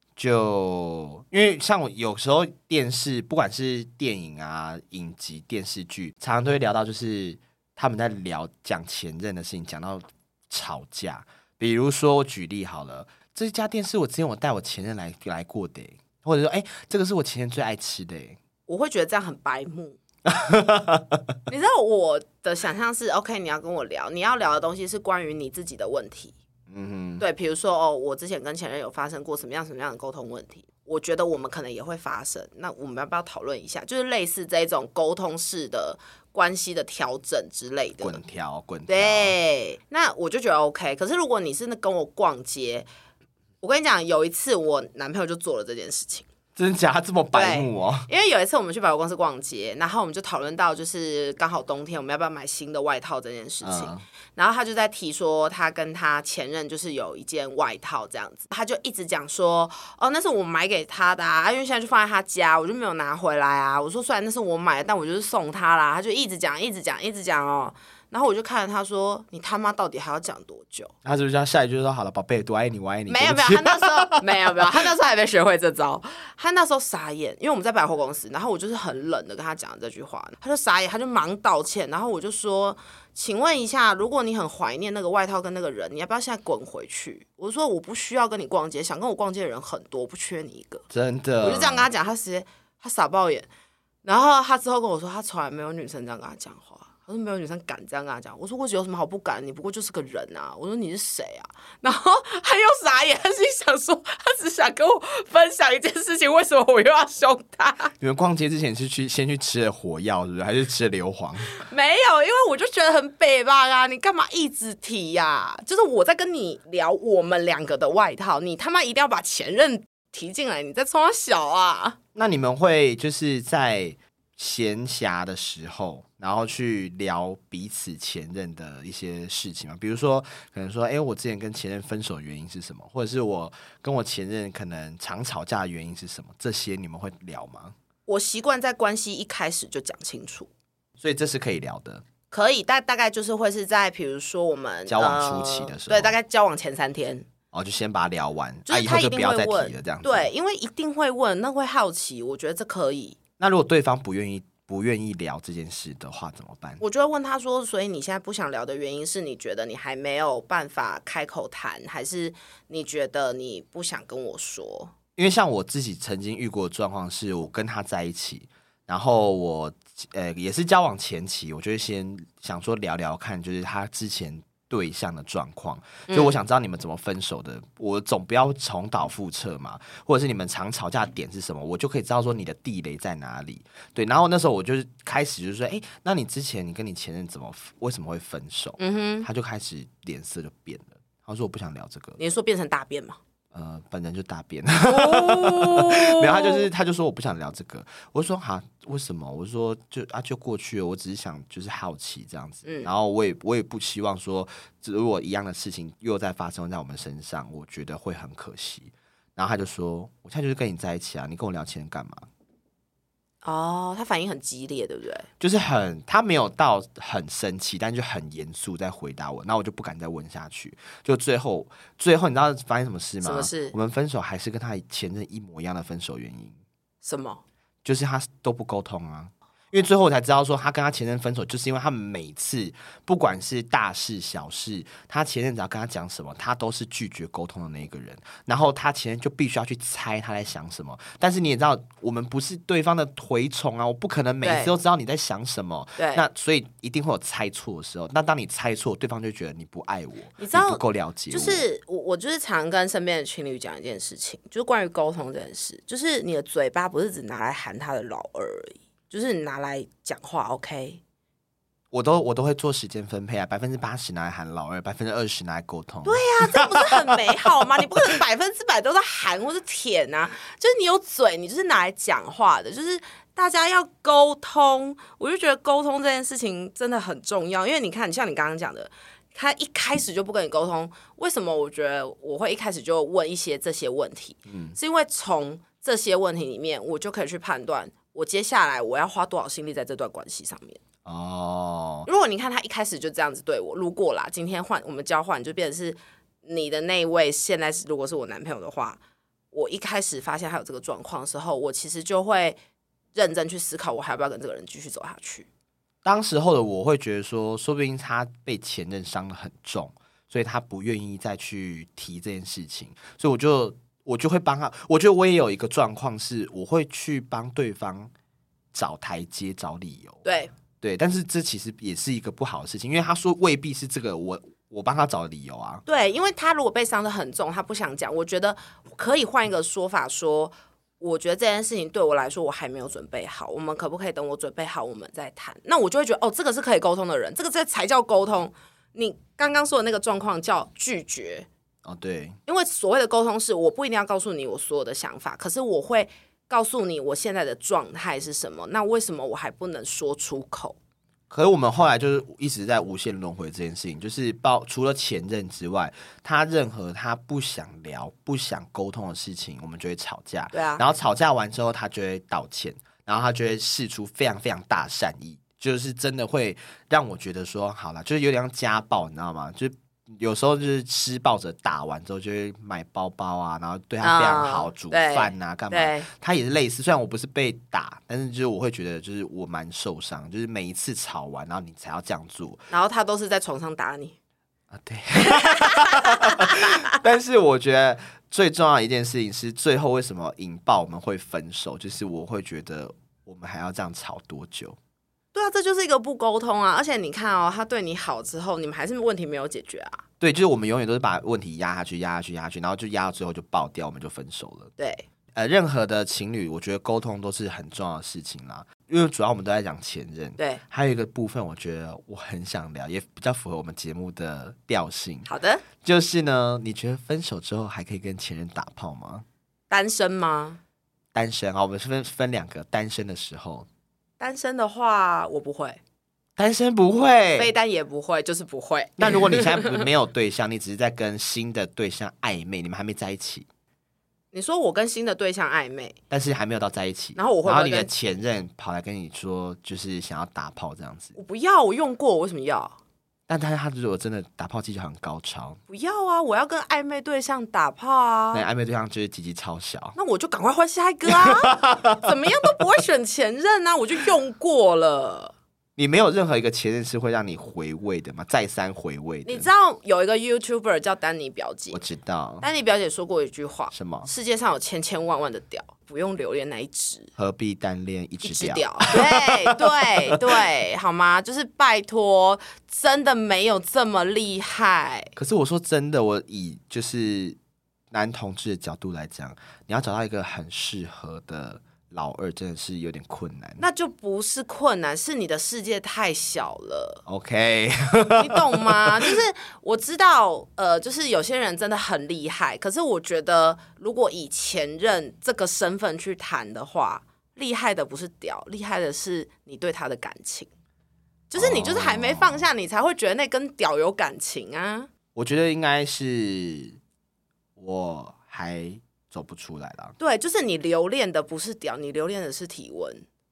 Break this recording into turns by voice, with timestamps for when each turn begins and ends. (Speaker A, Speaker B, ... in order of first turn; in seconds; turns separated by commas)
Speaker A: 0.2-18.4, Speaker B: 18.7-20.0, Speaker A: 20.2-21.3, Speaker B: 21.5-26.3, Speaker A: 26.7-27.2, Speaker B: 27.2-38.2, Speaker A: 38.0-39.4, Speaker B: 38.9-42.9, Speaker B: 43.6-46.3, Speaker A: 46.5-48.1, Speaker B: 47.3-70.9, Speaker A: 53.6-54.0, Speaker A: 71.0-74.5, Speaker B: 73.1-90.8, Speaker A: 90.9-91.9, Speaker B: 91.4-93.5, Speaker B: 94.0-107.9, Speaker A: 108.0-111.6, Speaker B: 111.5-122.0, Speaker A: 122.1-137.7, Speaker B: 138.1-140.5, Speaker A: 141.0-142.0, Speaker B: 142.3-147.2, Speaker A: 144.9-146.1, Speaker A: 147.5-150.3, Speaker B: 148.7-153.2, Speaker A: 153.4-156.8, Speaker B: 156.8-164.9, Speaker A: 165.2-192.2, Speaker B: 176.1-176.3, Speaker B: 188.8-189.3, Speaker B: 192.2-193.2, Speaker A: 193.5-212.3, Speaker B: 194.9-196.7, Speaker B: 202.6-202.9, Speaker B: 213.4-215.3, Speaker A: 215.4-226.6, Speaker B: 223.2-223.7, Speaker B: 227.0-227.4, Speaker A: 227.8-251.6, Speaker B: 244.4-244.7, Speaker B: 246.0-246.2, Speaker B: 250.4-261.0, Speaker A: 261.9-267.4, Speaker B: 266.0-290.8, Speaker A: 284.5-284.8, Speaker A: 291.0-292.1, Speaker B: 292.1-299.0, Speaker B: 299.5-302.6, Speaker B: 303.1-305.5, Speaker A: 306.0-318.1, Speaker A: 318.7-320.2, Speaker B: 320.2-320.5, Speaker A: 320.8-325.8, Speaker B: 325.9-341.5, Speaker A: 341.8-342.4, Speaker B: 342.5-350.8, Speaker A: 351.3-382.7, Speaker B: 360.5-360.8, Speaker B: 374.0-376.1, Speaker B: 382.7-384.2, Speaker A: 384.7-394.8, Speaker B: 385.3-386.7, Speaker B: 395.3-400.0, Speaker A: 400.2-404.7, Speaker B: 404.8-405.0, Speaker A: 405.3-415.3, Speaker B: 415.2-415.6, Speaker A: 415.8-419.2, Speaker B: 419.7-420.6, Speaker A: 421.1-423.7, Speaker B: 424.2-425.8, Speaker A: 426.4-427.5, Speaker B: 427.4-429.8, Speaker A: 429.0-433.5, Speaker B: 434.3-435.9, Speaker A: 436.1-441.1, Speaker B: 437.1-437.9, Speaker B: 441.1-442.8, Speaker A: 443.3-445.6, Speaker B: 445.7-448.4, Speaker A: 448.3-450.0, Speaker B: 449.9-455.3, Speaker A: 451.1-452.1, Speaker A: 455.8-459.5, Speaker B: 459.2-461.8, Speaker A: 461.7-462.4, Speaker B: 462.4-467.1, Speaker A: 463.7-464.1, Speaker A: 467.2-470.2, Speaker B: 468.2-475.1, Speaker A: 475.1-477.4, Speaker A: 477.9-483.6, Speaker B: 483.6-487.0, Speaker A: 487.1-489.1, Speaker B: 488.1-500.5, Speaker B: 501.3-504.9, Speaker A: 501.3-502.4, Speaker A: 505.1-506.8, Speaker A: 507.6-509.9, Speaker B: 510.0-513.0